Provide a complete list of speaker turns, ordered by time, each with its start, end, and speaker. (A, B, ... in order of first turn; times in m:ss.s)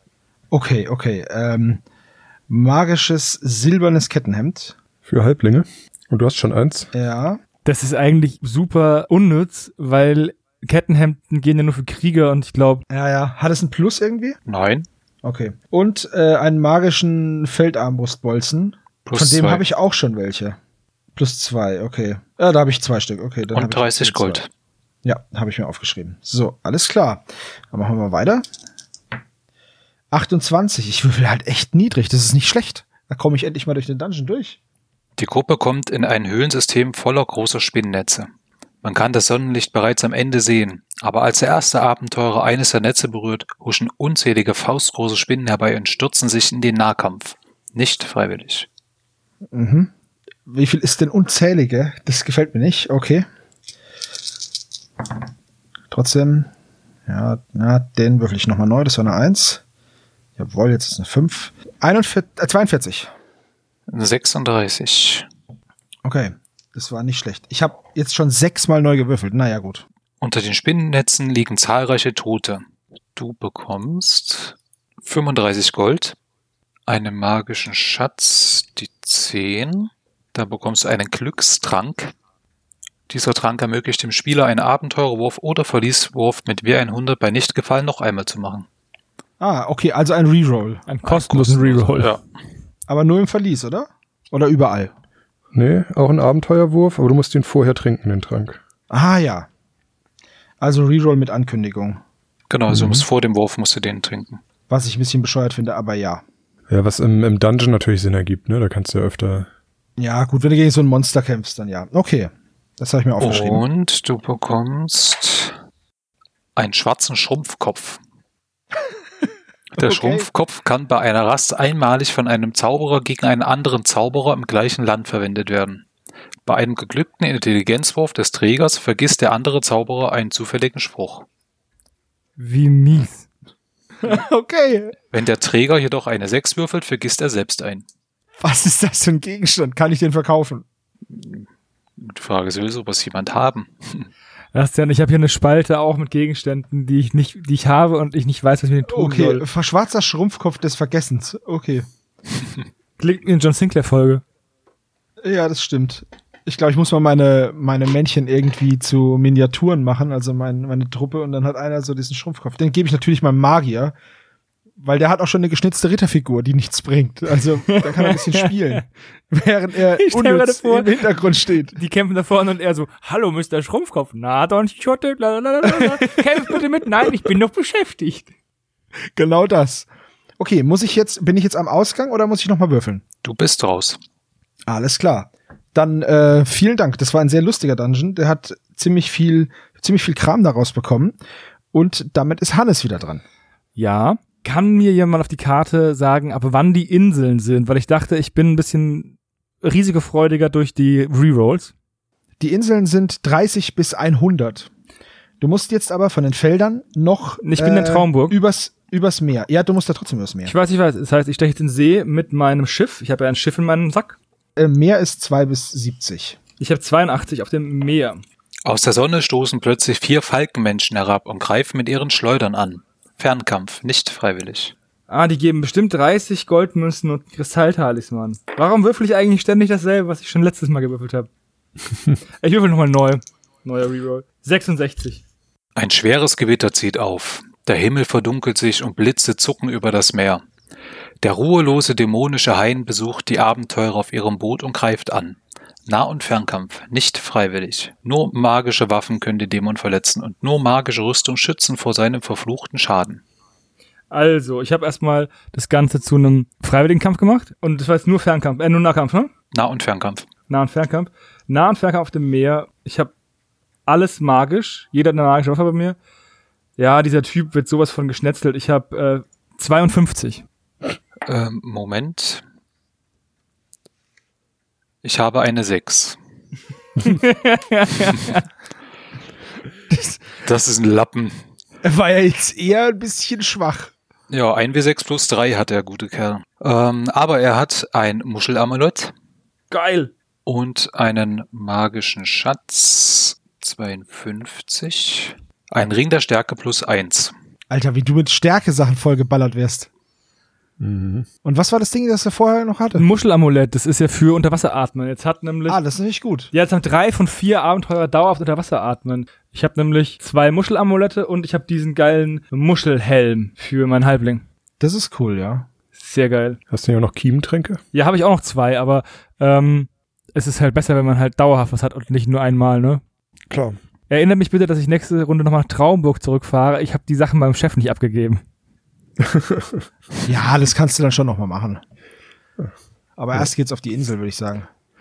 0:00.5-0:01.8 A
0:02.5-0:04.8 A
0:05.0-0:06.9 B
0:06.9-0:07.4 A
0:07.6-0:12.8 C
0:12.9-0:14.4 A
0:14.5-0:14.8 D
0:15.2-0:20.6 A
0:19.0-0:19.6 D
0:21.1-0:24.4 A
0:23.5-0:24.5 D
0:25.0-0:28.4 A
0:30.1-0:34.6 A
0:35.2-0:38.3 D
0:38.8-0:48.7 D
0:49.5-0:49.9 A
0:50.4-0:53.2 A
0:55.9-0:56.5 A
0:57.1-0:59.6 A
1:00.4-1:03.1 A
1:03.9-1:05.3 D
1:06.0-1:09.8 A
1:10.2-1:12.6 D
1:13.2-1:16.2 D
1:16.9-1:22.1 D
1:23.1-1:28.7 D
1:29.4-1:30.8 A
1:30.9-1:32.2 C
1:31.0-1:32.2 D
1:32.9-1:34.9 A
1:35.5-1:38.6 B
1:38.9-1:39.5 A
1:40.6-1:42.0 A
1:42.5-1:44.4 D
1:42.7-1:43.0 B
1:44.7-1:46.2 A
1:46.7-1:49.5 B
1:50.0-1:53.6 A
1:53.2-1:55.6 D
1:56.6-1:58.0 D
1:59.7-2:05.8 D
1:59.8-2:00.2 A
2:06.4-2:11.2 D
2:12.4-2:13.3 C
2:14.0-2:15.0 A
2:15.1-2:17.8 D
2:18.4-2:20.6 A
2:21.1-2:21.4 D
2:22.0-2:24.1 D
2:24.5-2:29.4 C
2:28.9-2:31.9 A
2:33.0-2:34.2 C
2:35.2-2:43.9 A
2:44.8-2:51.8 A
2:47.7-2:48.8 C
2:49.9-2:50.9 C
2:51.7-2:58.3 C
2:55.7-2:56.2 A
2:59.2-2:59.9 A
3:00.4-3:03.0 A
3:03.2-3:04.0 D
3:04.7-3:11.2 A
3:11.7-3:13.2 A
3:13.8-3:21.7 C
3:22.4-3:24.7 A
3:25.4-3:30.5 A
3:27.4-3:28.4 C
3:30.4-3:34.2 C
3:34.6-3:36.4 A
3:36.6-3:38.2 C
3:38.6-3:44.7 D
3:45.1-3:51.3 C
3:52.4-3:55.2 C
3:55.8-4:00.4 D
4:01.2-4:13.2 D
4:14.1-4:19.3 C
4:19.5-4:20.3 D
4:20.5-4:23.1 C
4:23.9-4:26.0 C
4:26.8-4:30.4 C
4:31.2-4:32.4 D
4:35.0-4:36.2 D
4:37.0-4:38.4 C
4:40.4-4:41.4 D
4:41.8-4:43.9 A
4:44.3-4:49.1 D
4:49.7-4:50.1 C
4:50.4-4:57.3 D
4:57.7-4:59.9 A
5:00.8-5:01.3 B
5:01.4-5:03.0 A
5:02.9-5:05.8 C
5:05.7-5:06.5 A
5:06.5-5:14.4 C
5:14.8-5:15.7 A
5:15.9-5:16.6 C
5:16.7-5:17.8 B
5:17.9-5:23.0 C
5:23.5-5:23.8 B
5:24.1-5:28.4 C
5:29.2-5:29.8 B
5:30.2-5:31.8 A
5:33.2-5:34.7 A